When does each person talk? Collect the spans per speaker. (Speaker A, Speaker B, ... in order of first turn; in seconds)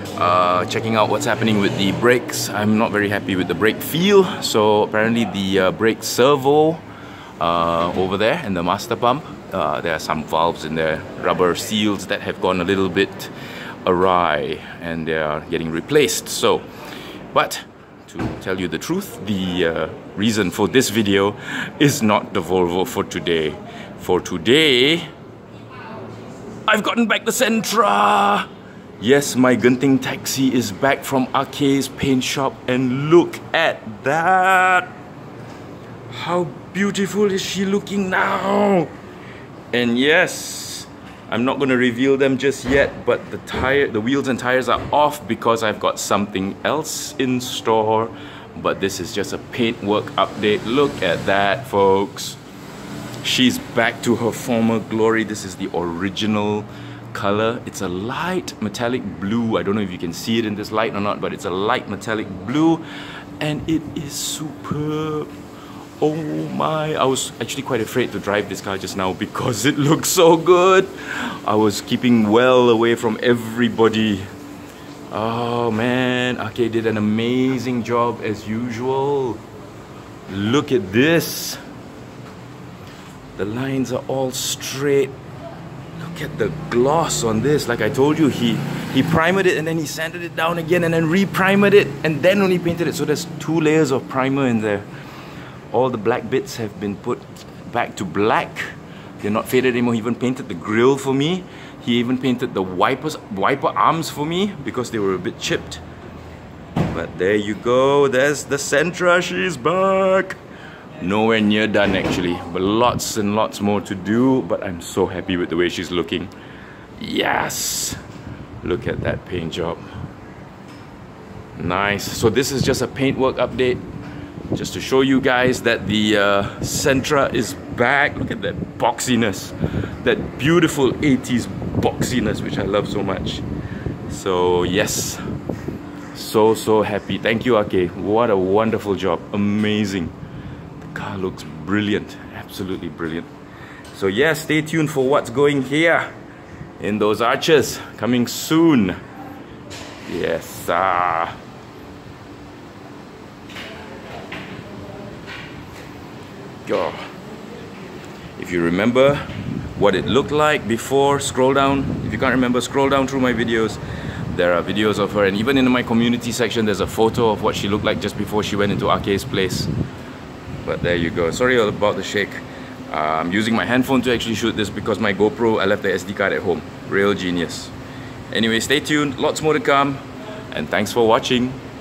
Speaker A: 0.1-6.8, 7.4-13.3, 13.8-16.6, 17.3-25.1, 26.6-28.5, 29.0-34.9, 36.1-38.9, 39.7-52.4, 53.2-62.8, 63.4-65.3, 66.0-74.3, 75.1-79.4, 80.3-81.6, 83.3-85.1, 86.0-94.9, 95.7-105.8, 106.9-110.4, 111.0-116.3, 117.0-118.0, 118.6-119.8, 121.6-123.8, 124.5-133.4, 134.1-135.2, 136.1-140.1, 140.8-143.3, 143.9-146.1, 146.8-149.0, 150.1-151.3, 156.6-157.1, 158.4-169.7, 170.6-177.7, 178.3-181.6